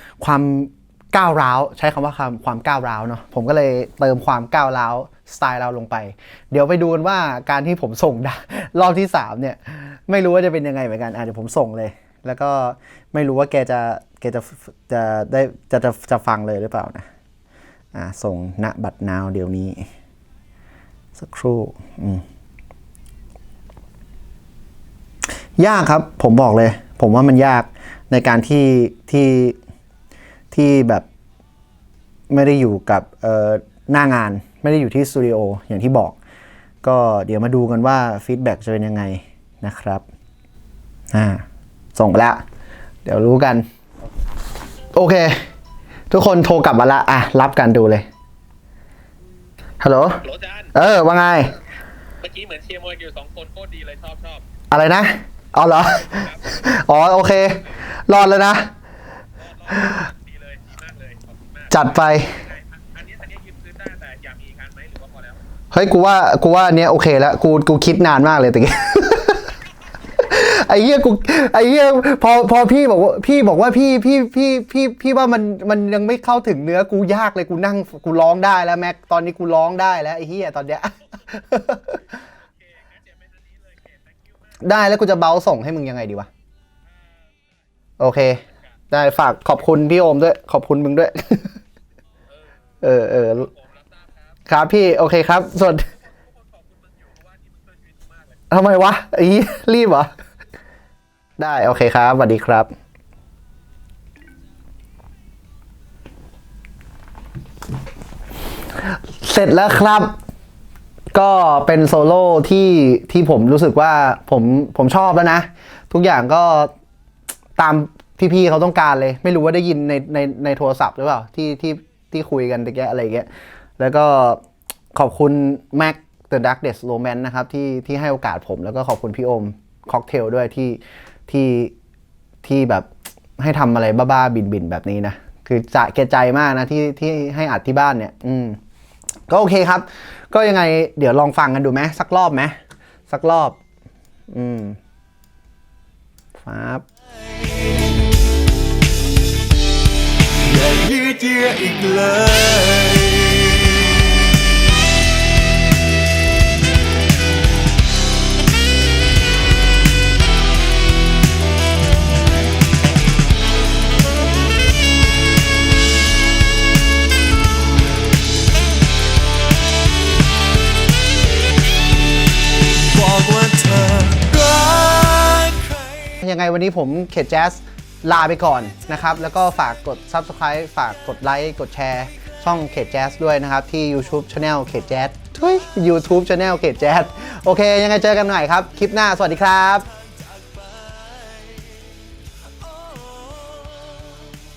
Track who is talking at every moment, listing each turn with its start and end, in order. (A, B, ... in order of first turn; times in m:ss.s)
0:00.2-0:17.1 A
0:17.9-0:19.9 A
0:21.2-0:22.2 A
0:25.6-0:29.6 A
0:30.5-0:31.0 A
0:32.3-0:36.2 A
0:36.8-0:40.0 A
0:41.1-0:41.4 A
0:42.0-0:42.4 A
0:43.0-0:43.6 A
0:44.9-0:45.4 A
0:46.1-0:48.1 A
0:49.8-0:51.6 A
0:52.2-0:54.4 B
0:54.7-0:58.7 A
0:59.7-1:00.1 A
1:00.3-1:01.5 B
1:01.7-1:02.5 A
1:02.8-1:05.4 B
1:05.7-1:09.5 A
1:10.2-1:22.0 A
1:23.1-1:23.9 B
1:24.6-1:26.3 A
1:28.0-1:31.6 A
1:32.8-1:33.5 A
1:34.5-1:35.9 A
1:36.6-1:38.1 B
1:38.5-1:40.1 A
1:41.4-1:42.7 A
1:48.8-1:50.2 A
1:51.1-1:56.7 A
1:57.6-2:04.4 A
2:04.9-2:11.7 A
2:12.4-2:12.9 A
2:13.4-2:18.6 A
2:19.3-2:22.6 A
2:23.1-2:23.6 A
2:24.3-2:24.8 A
2:26.4-2:26.8 A
2:30.4-2:34.2 C
2:52.8-2:56.2 C
2:56.2-3:09.9 A
3:10.4-3:11.8 C
3:12.8-3:13.7 C